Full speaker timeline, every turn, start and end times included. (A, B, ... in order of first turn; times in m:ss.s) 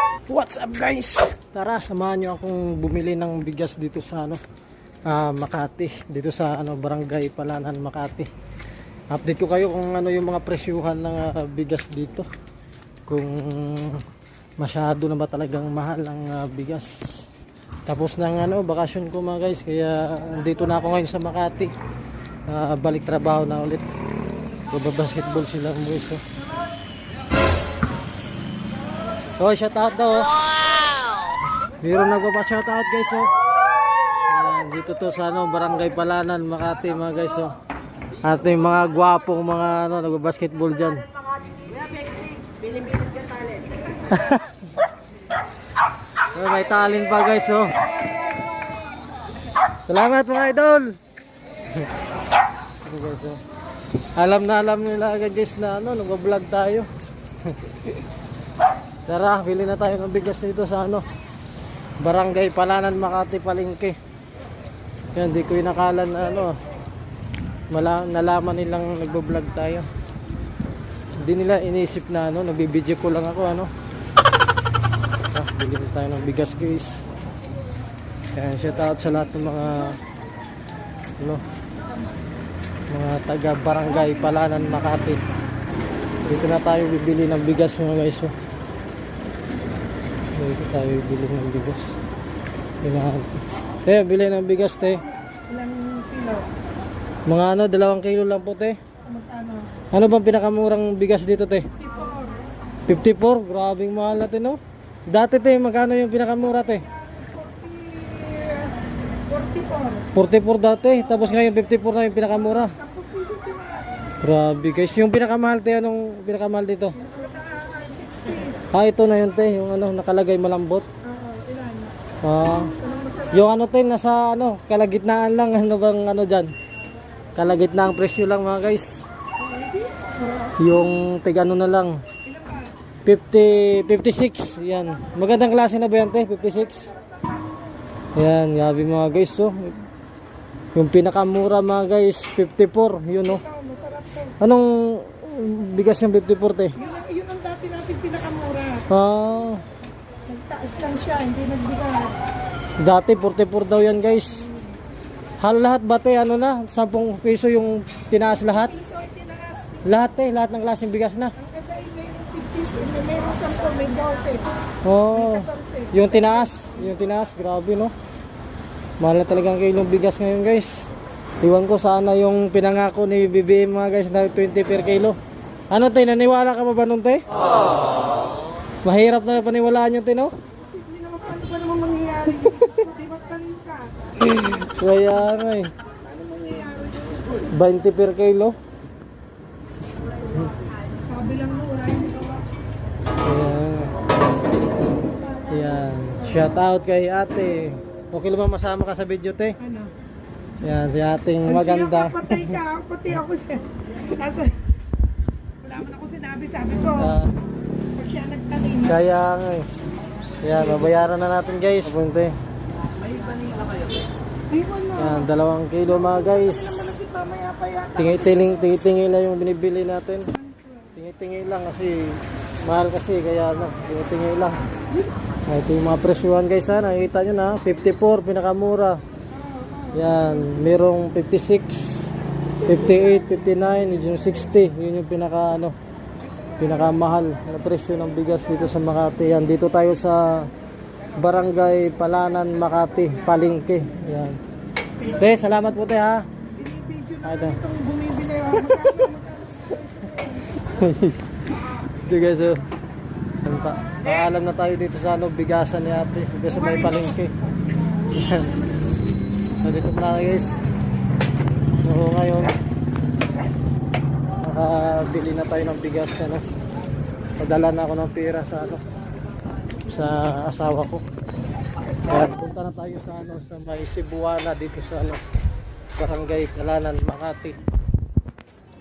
0:00.3-0:04.4 A
0:05.1-0:08.3 A
0:09.1-0:12.3 A
0:13.1-0:14.0 A
0:14.6-0:17.2 A
0:17.9-0:21.7 A
0:22.5-0:23.9 A
0:24.7-0:26.2 A
0:29.4-0:30.4 A
0:31.8-0:33.3 A
0:34.3-0:37.5 A
0:38.2-0:41.1 A
0:44.1-0:44.5 A
0:46.3-0:47.8 A
0:49.9-0:51.0 A
0:52.8-0:53.4 A
0:54.2-0:56.9 A
0:57.4-0:58.0 A
0:59.1-1:01.1 A
1:02.0-1:04.0 A
1:05.2-1:06.6 A
1:07.7-1:09.9 A
1:11.2-1:13.7 A
1:15.3-1:17.0 A
1:18.3-1:20.0 A
1:22.9-1:25.2 A
1:26.3-1:28.3 A
1:30.3-1:32.0 A
1:32.8-1:35.0 A
1:35.5-1:36.5 B
1:37.3-1:38.8 A
1:39.0-1:39.8 B
1:39.9-1:41.7 A
1:41.8-1:42.4 B
1:42.9-1:46.9 A
1:46.9-1:48.8 B
1:49.3-1:50.1 B
1:50.1-1:52.8 A
1:52.8-1:54.1 B
1:54.2-1:57.0 A
1:57.0-1:58.6 B
1:58.6-2:00.9 A
2:01.0-2:02.0 B
2:02.2-2:06.5 A
2:02.6-2:03.3 B
2:07.4-2:09.1 A
2:09.4-2:10.5 B
2:10.6-2:12.0 A
2:12.3-2:12.7 B
2:13.0-2:16.9 A
2:16.9-2:17.6 B
2:18.2-2:19.8 A
2:20.8-2:23.4 A
2:23.4-2:24.3 B
2:24.4-2:26.8 A
2:26.8-2:28.9 B
2:28.9-2:29.6 A
2:30.3-2:32.2 B
2:32.8-2:34.5 A
2:35.4-2:38.8 A
2:38.8-2:39.8 B
2:39.8-2:41.4 A
2:41.4-2:44.5 B
2:44.8-2:47.9 A
2:45.2-2:46.2 B
2:49.0-2:50.9 A
2:51.4-2:55.2 A
2:55.7-2:57.2 A
2:58.8-3:00.3 A
3:00.6-3:04.1 B
3:02.4-3:02.9 A
3:04.2-3:05.7 A
3:06.1-3:07.5 B
3:07.4-3:08.6 A
3:11.0-3:12.4 B
3:13.2-3:14.0 A
3:15.5-3:19.6 A
3:19.6-3:19.9 B
3:20.6-3:22.6 A
3:21.5-3:24.6 B
3:25.6-3:27.2 B
3:26.9-3:27.3 A
3:27.8-3:28.9 B
3:28.8-3:29.7 A
3:30.4-3:32.4 A
3:34.5-3:35.3 B
3:35.0-3:37.0 A
3:36.1-3:38.3 B
3:38.0-3:40.3 A
3:40.9-3:44.6 A
3:45.5-3:49.0 A
3:49.9-3:55.8 A
3:56.6-4:00.5 A
4:01.2-4:04.4 A
4:05.0-4:06.3 A
4:06.5-4:10.2 B
4:07.2-4:07.6 A
4:10.6-4:11.2 A
4:11.9-4:12.7 A
4:13.4-4:17.4 A
4:18.1-4:18.6 A
4:19.6-4:20.6 A
4:21.8-4:22.6 A
4:24.4-4:26.4 A
4:27.4-4:28.8 A
4:29.9-4:31.0 A
4:32.0-4:35.2 A
4:36.0-4:37.6 A